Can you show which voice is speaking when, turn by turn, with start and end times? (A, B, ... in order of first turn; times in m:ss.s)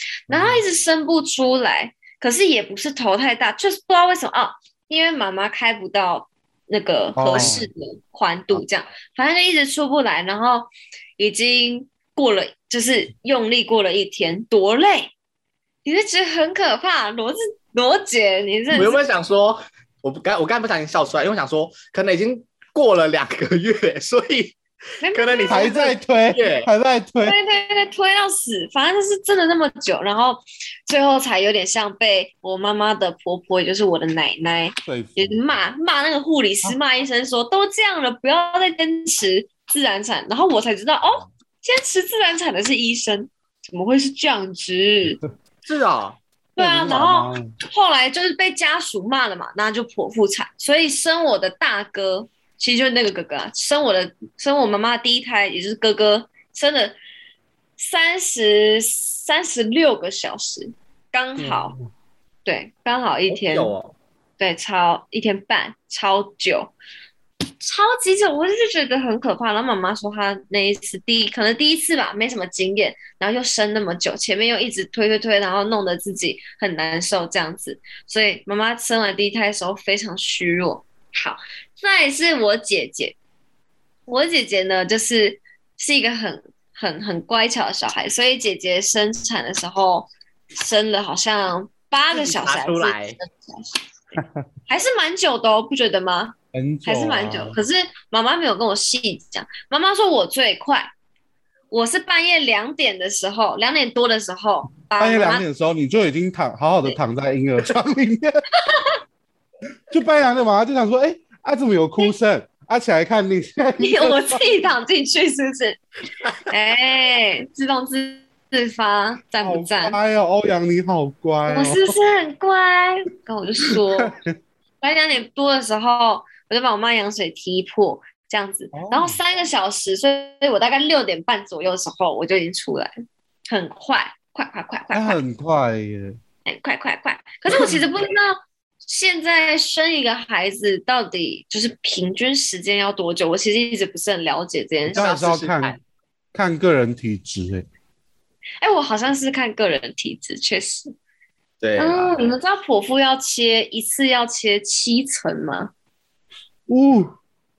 0:00.3-0:15.1 A
0:00.3-0:00.6 B
0:07.2-0:07.7 B
0:15.8-0:19.0 A
0:18.7-0:24.6 C
0:25.0-0:25.9 A
0:25.1-0:26.7 C
0:25.5-0:27.4 B
0:27.2-0:45.2 A
0:34.8-0:35.4 B
0:45.6-0:46.2 C
0:46.6-0:57.0 A
0:46.6-0:47.5 B
0:57.8-1:01.8 A
1:01.4-1:01.9 B
1:02.4-1:03.7 A
1:03.3-1:03.9 C
1:04.4-1:06.7 A
1:07.6-1:23.2 A
1:24.1-1:33.7 A
1:32.1-1:33.2 C
1:34.7-1:40.9 A
1:36.5-1:37.6 B
1:41.7-1:45.4 A
1:45.0-1:48.4 B
1:48.6-1:48.9 A
1:49.9-1:54.5 B
1:53.8-1:55.8 A
1:56.5-2:00.0 A
1:59.4-2:01.9 B
2:01.5-2:04.1 A
2:04.0-2:04.3 B
2:04.8-2:12.9 A
2:08.7-2:09.2 B
2:13.5-2:15.2 A
2:14.9-2:16.2 B
2:16.5-2:25.1 A
2:17.6-2:17.8 B
2:24.9-2:25.8 B
2:24.9-2:25.8 C
2:26.3-2:27.7 B
2:28.6-2:30.9 A
2:31.6-2:32.1 C
2:31.8-2:35.7 A
2:36.7-2:37.1 B